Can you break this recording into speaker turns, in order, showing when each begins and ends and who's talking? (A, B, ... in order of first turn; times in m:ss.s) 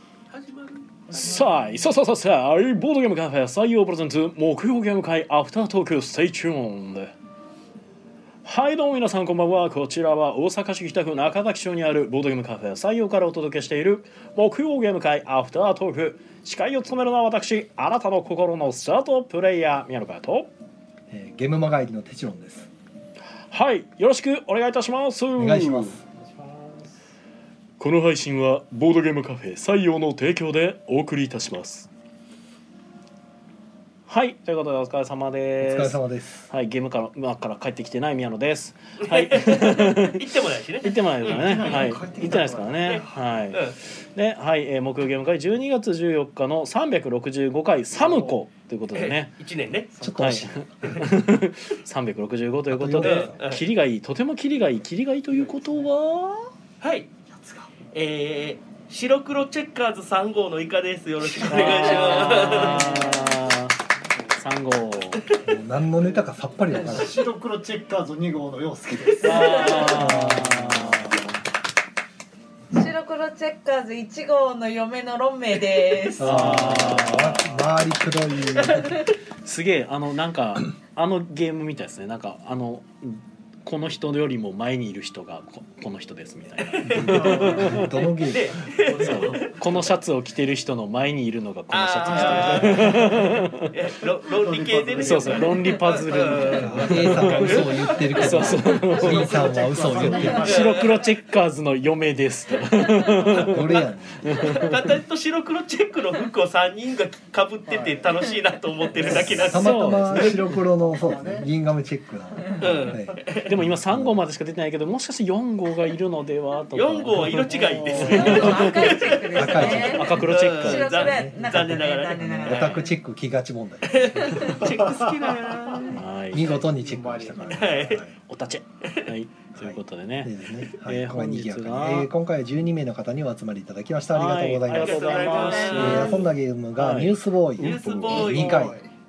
0:00.3-0:01.3 A
0:01.1-0:01.9 B
0:01.1-0:07.1 C
0:08.4-0:20.5 C
0:21.1-0:22.7 D
0:23.5-0:26.0 C
0:25.4-0:26.0 D
0:26.2-0:26.9 B
0:27.8-0:31.9 C
0:34.1-0:40.3 C
0:35.6-0:36.5 D
0:39.0-0:42.0 A
0:40.8-0:49.4 C
0:41.2-0:43.5 B
0:42.8-0:43.8 A
0:47.9-0:48.4 B
0:48.9-0:49.9 A
0:49.9-0:50.9 B
0:50.0-0:51.1 D
0:50.2-0:56.5 C
0:52.7-0:53.4 D
0:53.0-0:53.6 A
0:55.3-0:55.9 B
0:56.8-0:57.1 A
0:57.3-0:57.7 B
0:57.9-1:03.0 A
1:01.3-1:03.8 C
1:01.4-1:03.1 B
1:01.8-1:03.4 E
1:04.3-1:05.3 C
1:05.1-1:05.5 B
1:05.4-1:07.2 D
1:06.0-1:10.7 B
1:09.0-1:10.3 A
1:09.2-1:11.4 C
1:09.9-1:11.2 D
1:12.7-1:16.7 E
1:16.2-1:17.6 C
1:16.2-1:19.0 D
1:18.6-1:18.9 A
1:19.4-1:27.9 C
1:26.6-1:29.5 A
1:26.9-1:28.6 D
1:26.9-1:30.0 B
1:28.9-1:33.7 C
1:31.7-1:38.5 A
1:32.0-1:33.5 B
1:34.3-1:37.1 B
1:35.0-1:44.9 C
1:36.6-1:40.6 D
1:38.4-1:41.1 B
1:40.0-1:40.4 E
1:40.4-1:40.9 A
1:43.2-1:50.4 A
1:43.3-1:44.6 D
1:47.7-1:48.2 B
1:49.0-1:51.5 B
1:49.0-1:54.2 D
1:49.2-1:50.5 C
1:52.6-1:53.5 A
1:53.4-2:01.2 C
1:56.7-2:02.9 A
1:57.4-1:59.1 B
1:58.1-2:02.9 E
1:59.3-2:00.3 D
2:00.9-2:04.7 D
2:03.8-2:06.0 A
2:04.6-2:08.0 B
2:05.9-2:06.6 C
2:06.3-2:08.1 D
2:07.4-2:08.0 A
2:08.2-2:12.1 C
2:08.8-2:09.1 A
2:09.6-2:15.1 D
2:14.1-2:18.3 C
2:14.7-2:16.0 B
2:14.7-2:16.2 A
2:15.0-2:16.1 E
2:15.7-2:18.8 D
2:17.6-2:18.7 A
2:18.1-2:18.7 E
2:18.1-2:18.9 B